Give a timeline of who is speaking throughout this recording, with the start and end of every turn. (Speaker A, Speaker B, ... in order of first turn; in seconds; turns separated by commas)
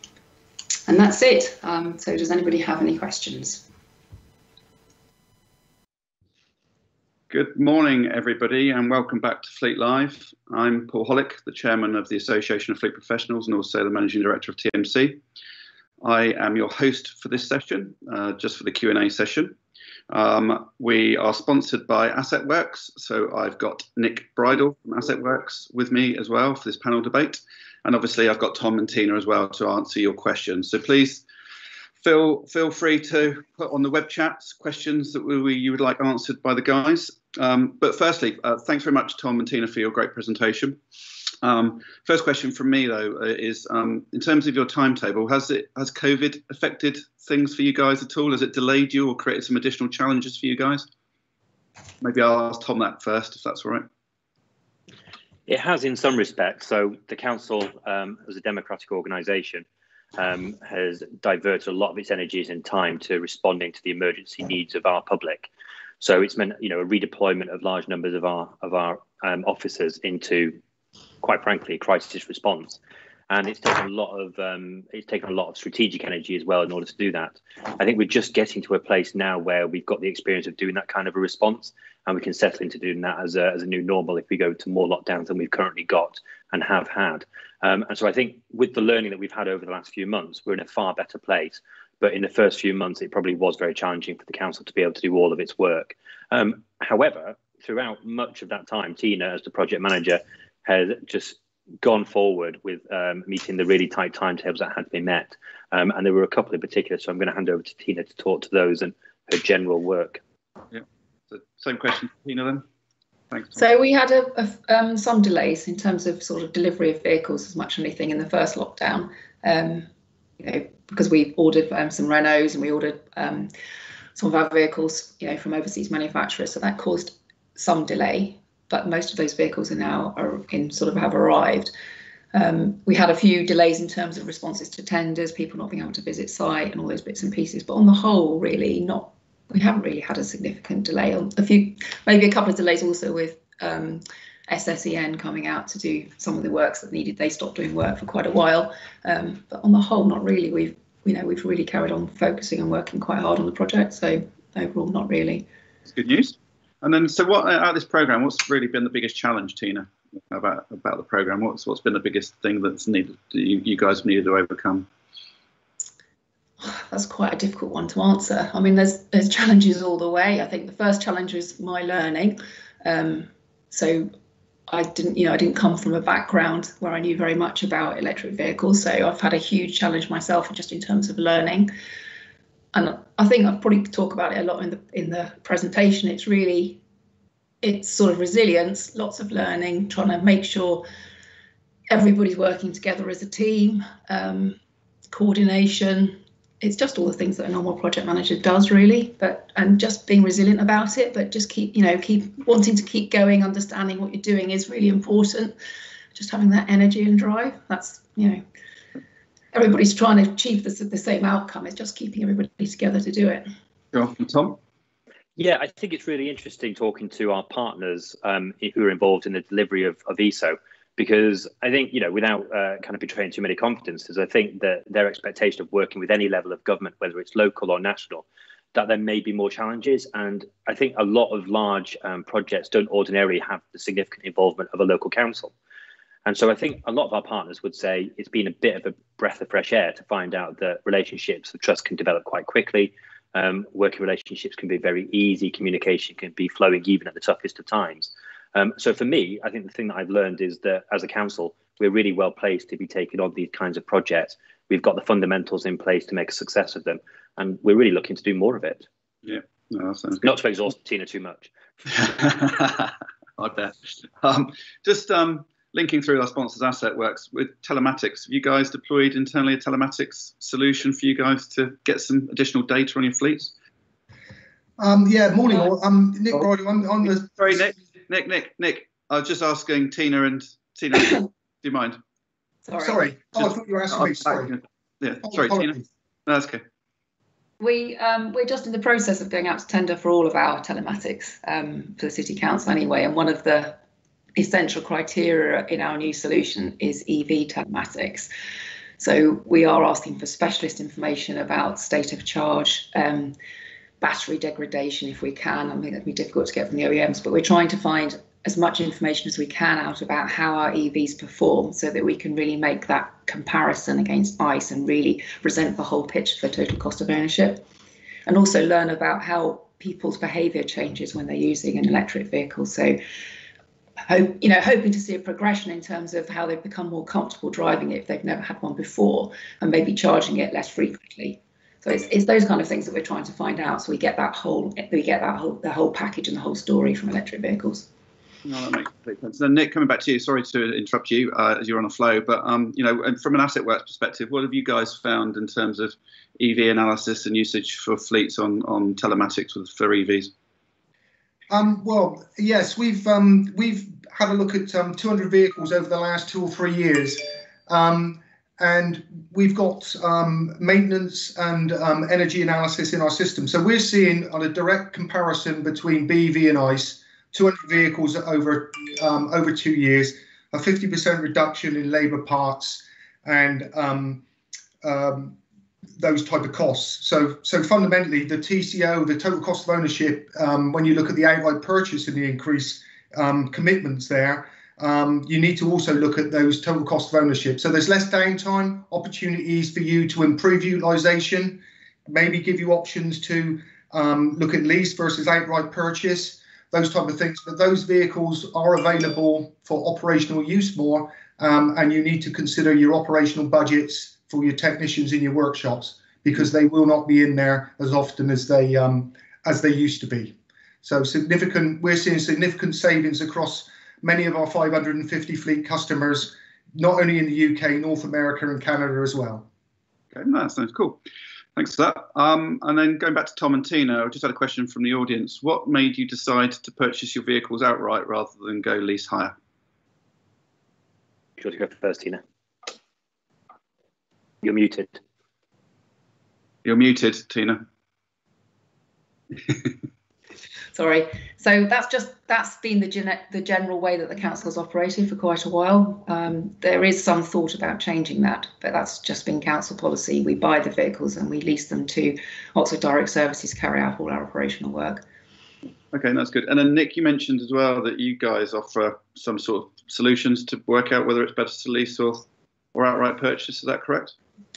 Speaker A: 0.9-3.6, Speaker B: 7.3-15.2, Speaker B: 16.0-19.6, Speaker B: 20.1-31.2, Speaker B: 32.0-40.8, Speaker B: 41.4-50.9, Speaker B: 52.0-53.9, Speaker C: 55.5-59.6, Speaker C: 60.2-65.5, Speaker C: 66.0-70.6, Speaker C: 71.2-72.8, Speaker C: 73.3-110.2, Speaker B: 110.7-112.6, Speaker A: 113.5-119.9, Speaker A: 120.4-123.5, Speaker A: 124.1-131.7, Speaker A: 132.3-155.5, Speaker B: 155.9-164.9, Speaker A: 166.6-174.1, Speaker A: 174.7-181.7, Speaker A: 182.7-186.8, Speaker A: 187.6-190.8, Speaker A: 191.9-194.6, Speaker A: 195.1-205.5, Speaker A: 206.1-208.4, Speaker A: 209.5-213.4, Speaker B: 213.9-214.6, Speaker C: 215.4-235.5, Speaker C: 236.2-258.9, Speaker B: 259.2-260.2, Speaker C: 260.2-261.5, Speaker B: 261.9-273.5, Speaker D: 274.8-277.6, Speaker B: 277.0-282.0, Speaker A: 282.6-283.0, Speaker D: 282.8-284.5, Speaker B: 283.4-286.6, Speaker D: 285.2-285.9, Speaker A: 287.6-293.8, Speaker A: 294.4-298.3, Speaker A: 299.0-303.4, Speaker A: 304.0-317.6, Speaker A: 318.2-323.0, Speaker A: 324.1-337.9, Speaker B: 338.4-350.3, Speaker D: 351.5-374.2, Speaker D: 374.8-375.4, Speaker D: 376.0-419.5, Speaker B: 420.1-421.0, Speaker B: 421.6-429.3, Speaker C: 431.4-432.2, Speaker C: 434.4-435.0, Speaker B: 436.6-437.6, Speaker A: 440.7-455.0, Speaker B: 455.9-464.1